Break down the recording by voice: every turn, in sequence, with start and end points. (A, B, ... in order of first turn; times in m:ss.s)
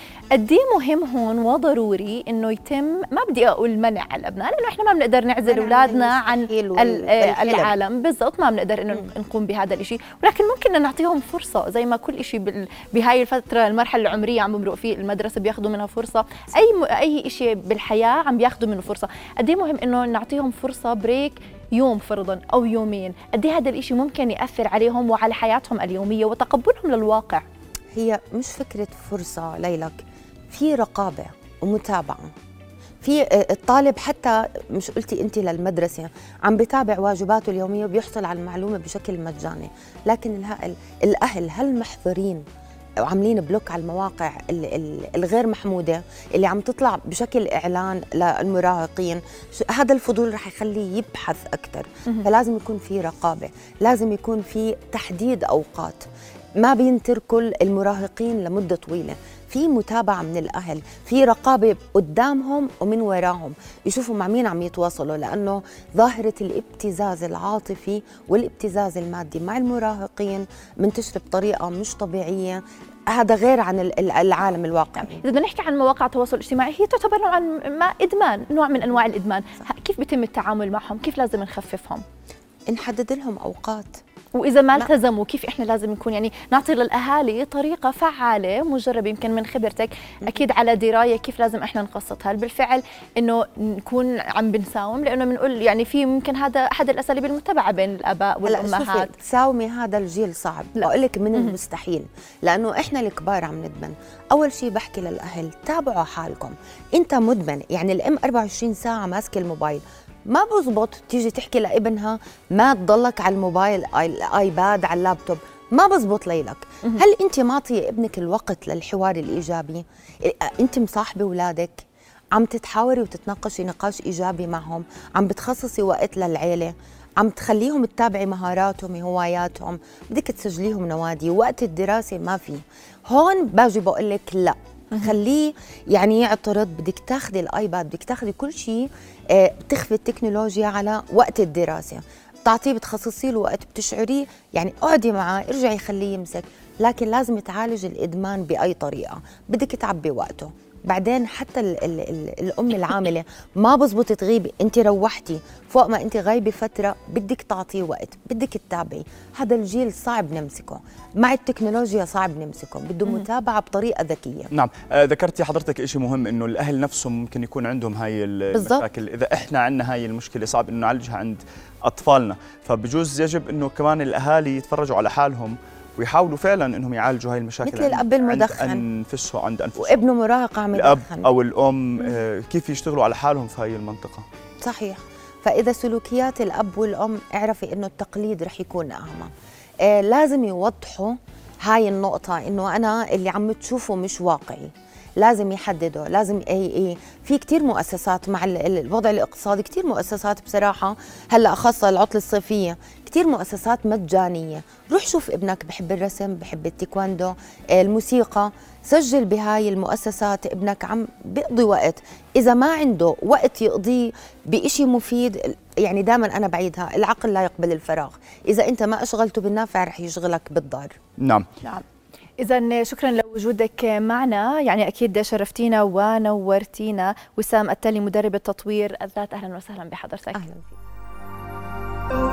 0:00.3-0:27.4 A
0:05.4-0:07.7 B
0:27.9-0:32.3 B
0:33.0-0:42.4 B
0:43.0-0:56.0 B
0:56.6-1:15.2 B
1:15.1-1:22.0 A
1:22.7-1:24.0 B
1:24.3-1:39.1 A
1:38.4-2:01.8 B
1:40.8-1:41.6 A
2:02.3-2:44.5 B
2:44.5-3:00.0 C
2:48.5-2:48.8 B
2:57.6-2:58.8 B
2:59.8-3:01.3 B
3:00.7-3:04.2 C
3:04.6-3:09.3 B
3:09.8-3:41.0 B
3:41.2-3:41.4 C
3:42.4-3:50.4 A
3:50.3-3:50.7 B